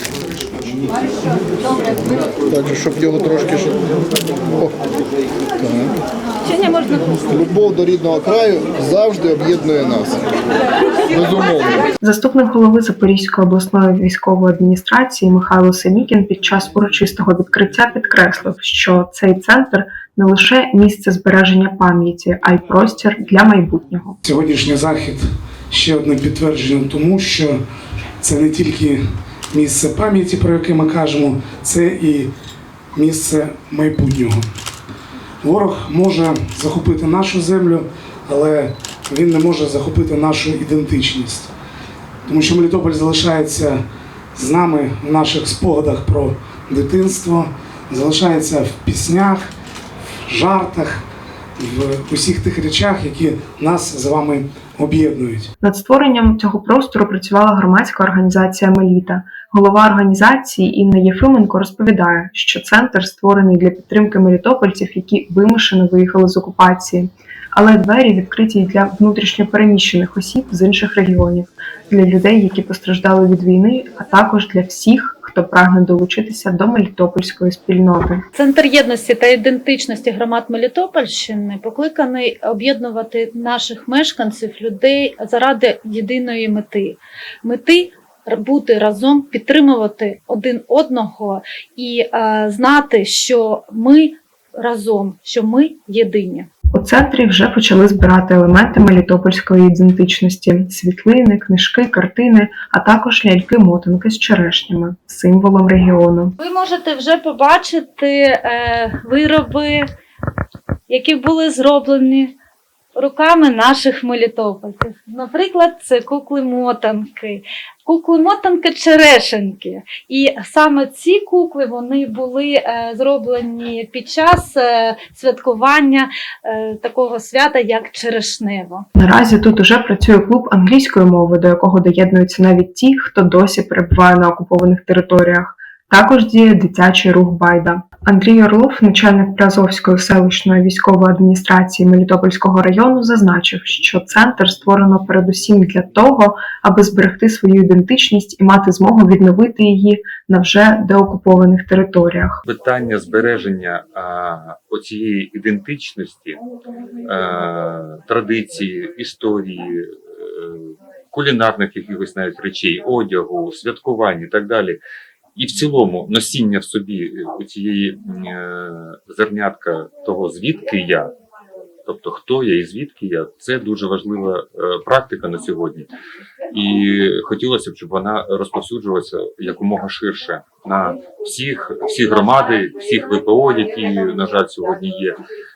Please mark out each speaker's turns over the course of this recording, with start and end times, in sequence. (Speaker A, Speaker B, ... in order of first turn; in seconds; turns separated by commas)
Speaker A: 2.5-4.8, Speaker A: 5.6-6.0, Speaker A: 7.1-10.3, Speaker A: 11.1-11.8, Speaker B: 12.0-24.2, Speaker C: 24.2-27.6, Speaker C: 28.2-29.0, Speaker C: 29.5-32.3, Speaker C: 32.9-34.5, Speaker C: 35.4-41.5, Speaker C: 42.3-43.8, Speaker C: 44.4-49.5, Speaker C: 50.3-51.0, Speaker C: 51.6-55.5, Speaker B: 55.6-78.2, Speaker D: 78.3-96.5, Speaker B: 96.7-106.3, Speaker D: 106.4-109.9, Speaker D: 110.9-112.3, Speaker D: 113.0-128.8, Speaker B: 128.9-152.4, Speaker E: 152.5-156.4, Speaker E: 157.1-164.8, Speaker E: 165.3-171.1, Speaker E: 171.9-175.9, Speaker E: 176.5-185.2